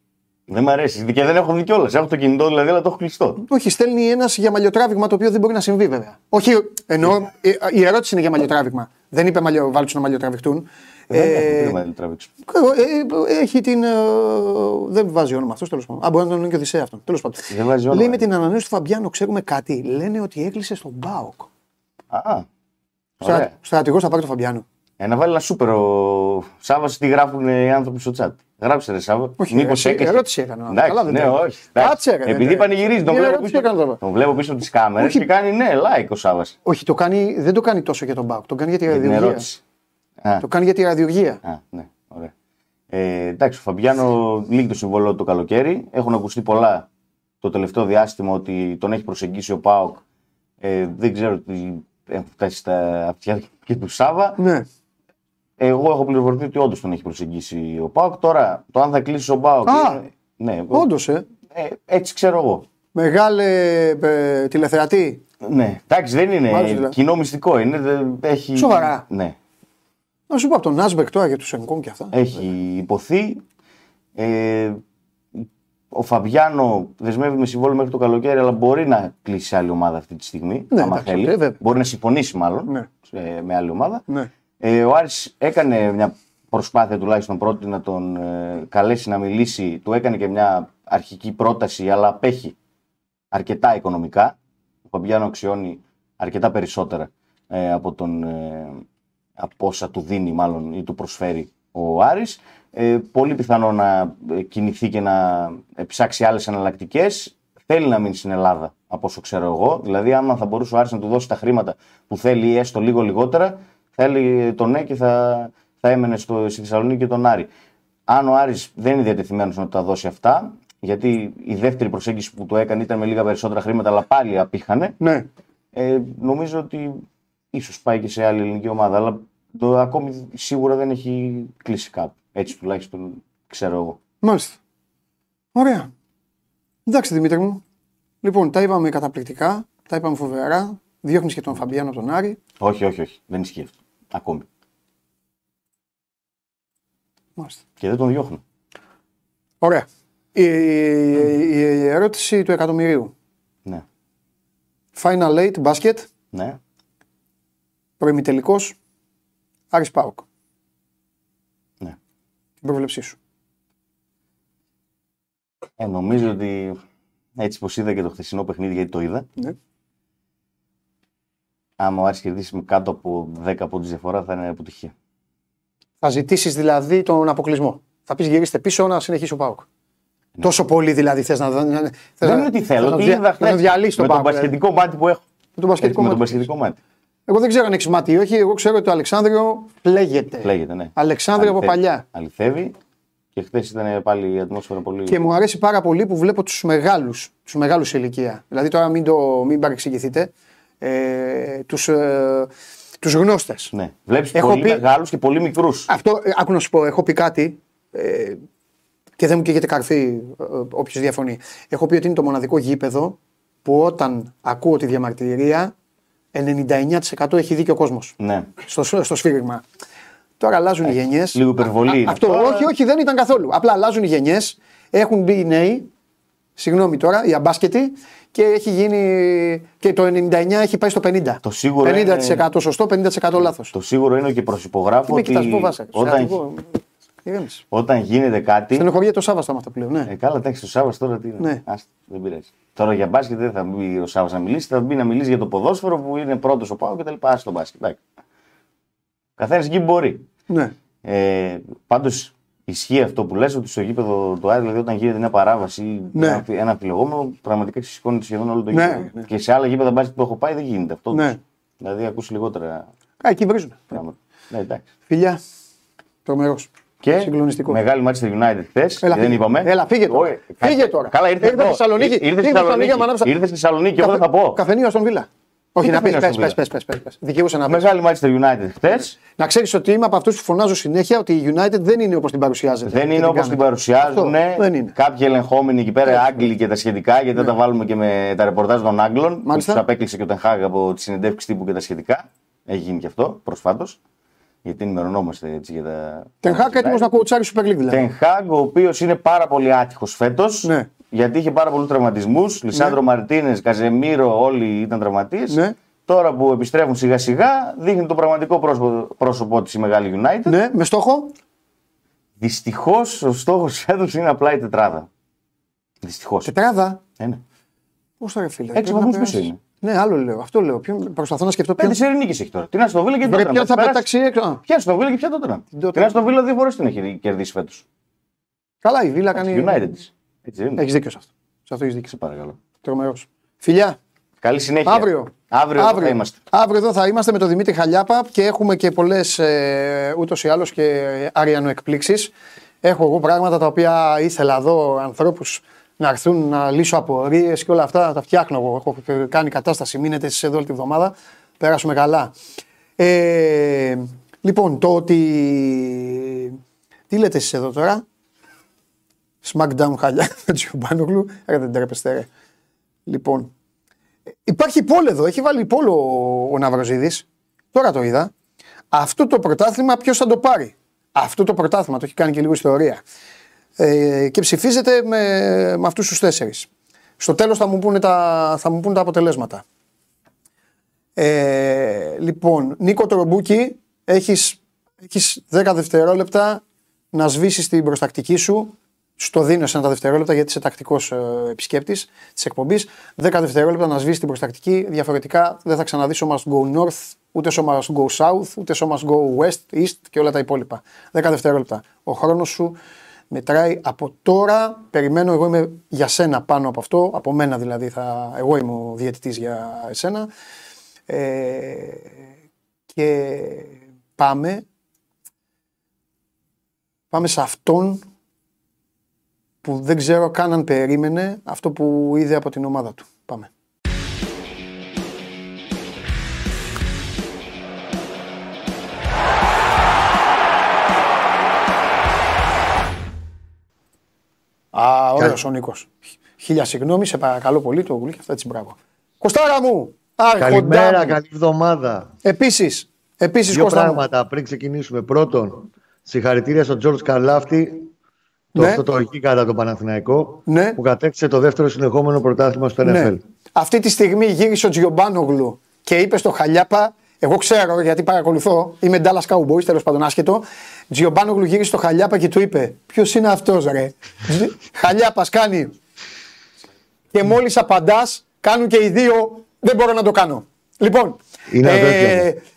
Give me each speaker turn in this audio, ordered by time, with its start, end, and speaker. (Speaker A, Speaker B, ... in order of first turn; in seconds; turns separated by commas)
Speaker A: 0.5-3.4, Speaker B: 3.4-11.8, Speaker A: 11.1-12.3, Speaker B: 12.5-21.5, Speaker A: 17.5-18.2, Speaker A: 22.1-22.5, Speaker A: 23.2-23.5, Speaker B: 23.2-24.6, Speaker A: 25.0-36.5, Speaker B: 29.4-34.0, Speaker B: 35.0-35.2, Speaker B: 36.6-39.5, Speaker A: 38.9-39.6, Speaker B: 40.4-41.4, Speaker A: 41.4-42.3, Speaker A: 42.9-46.9, Speaker A: 47.4-50.0, Speaker A: 50.6-54.4, Speaker B: 54.4-54.6, Speaker A: 55.6-60.9, Speaker B: 59.6-60.0, Speaker B: 60.7-61.2, Speaker A: 61.5-62.6, Speaker B: 62.9-65.2, Speaker A: 65.4-69.4, Speaker B: 66.5-66.9, Speaker B: 68.6-69.0, Speaker B: 70.3-72.1, Speaker A: 72.1-73.4, Speaker A: 74.2-74.8, Speaker A: 75.3-84.0, Speaker B: 80.7-81.6, Speaker A: 84.6-92.5, Speaker A: 93.3-94.4, Speaker A: 94.9-98.8, Speaker A: 99.4-117.5, Speaker A: 118.1-124.9, Speaker B: 125.0-125.2, Speaker A: 125.7-134.0, Speaker B: 134.2-134.6, Speaker B: 135.6-135.9, Speaker B: 136.9-137.6, Speaker B: 138.2-142.4, Speaker A: 142.6-144.5, Speaker A: 147.8-148.4, Speaker B: 149.6-153.1, Speaker B: 154.9-156.1, Speaker A: 156.3-156.6, Speaker B: 158.0-158.7, Speaker B: 159.7-160.2, Speaker B: 162.6-163.2, Speaker A: 165.8-166.8, Speaker A: 167.4-169.3, Speaker A: 171.8-174.9, Speaker B: 176.0-179.7, Speaker B: 180.4-184.5, Speaker A: 182.2-185.2, Speaker B: 185.6-186.4, Speaker A: 185.8-186.8, Speaker B: 187.3-192.0, Speaker A: 190.4-192.8, Speaker A: 193.3-195.2, Speaker B: 195.1-200.3, Speaker B: 200.8-202.5, Speaker B: 203.0-203.7, Speaker A: 203.7-205.9, Speaker B: 204.3-204.8, Speaker B: 205.9-208.4, Speaker B: 209.2-215.7, Speaker B: 216.3-219.6, Speaker A: 218.2-218.5, Speaker B: 220.4-225.9, Speaker A: 220.8-222.7, Speaker B: 226.6-233.7, Speaker A: 231.4-232.4, Speaker A: 233.6-236.4, Speaker B: 235.1-237.6, Speaker A: 237.7-238.9, Speaker B: 238.7-240.1, Speaker A: 240.1-248.0, Speaker A: 249.4-250.2, Speaker A: 251.0-262.9, Speaker B: 256.1-256.4, Speaker B: 258.7-259.3, Speaker B: 261.1-261.4, Speaker B: 263.2-264.0, Speaker A: 263.9-264.9, Speaker B: 265.1-265.4, Speaker B: 266.2-267.8, Speaker A: 267.0-274.6, Speaker B: 269.0-273.3, Speaker B: 274.0-277.9, Speaker A: 275.8-276.6, Speaker A: 277.7-279.1, Speaker B: 278.9-284.9, Speaker A: 282.9-294.0, Speaker B: 289.4-289.8, Speaker A: 294.6-297.1, Speaker B: 296.4-298.0, Speaker A: 297.9-310.6, Speaker B: 305.5-305.8, Speaker B: 310.4-311.3, Speaker A: 312.4-315.1, Speaker A: 316.0-316.5, Speaker B: 316.4-317.0, Speaker B: 318.2-322.0, Speaker A: 318.7-319.6, Speaker A: 321.8-324.1, Speaker B: 323.2-324.6, Speaker A: 324.6-327.8, Speaker B: 325.7-326.2, Speaker B: 328.8-329.9, Speaker A: 329.4-330.8, Speaker B: 330.8-332.1, Speaker A: 332.1-332.6, Speaker B: 332.8-334.0, Speaker A: 334.4-336.4, Speaker B: 334.9-342.3, Speaker B: 342.8-352.3, Speaker B: 353.0-356.6, Speaker B: 357.1-358.0, Speaker B: 359.4-362.3, Speaker B: 363.1-363.5, Speaker B: 364.5-368.3, Speaker B: 368.9-373.0, Speaker B: 373.8-376.7, Speaker B: 377.2-379.6, Speaker B: 381.2-386.6, Speaker B: 387.1-402.8, Speaker B: 403.3-410.3, Speaker B: 411.1-412.2, Speaker B: 412.9-414.6, Speaker B: 417.1-418.0, Speaker B: 419.6-423.5, Speaker B: 434.7-441.2, Speaker C: 440.4-442.1, Speaker B: 442.2-444.0, Speaker C: 443.5-447.9, Speaker C: 448.6-453.2, Speaker B: 448.6-448.8, Speaker B: 450.5-450.8, Speaker B: 452.8-465.7, Speaker B: 467.1-472.4, Speaker C: 471.5-472.3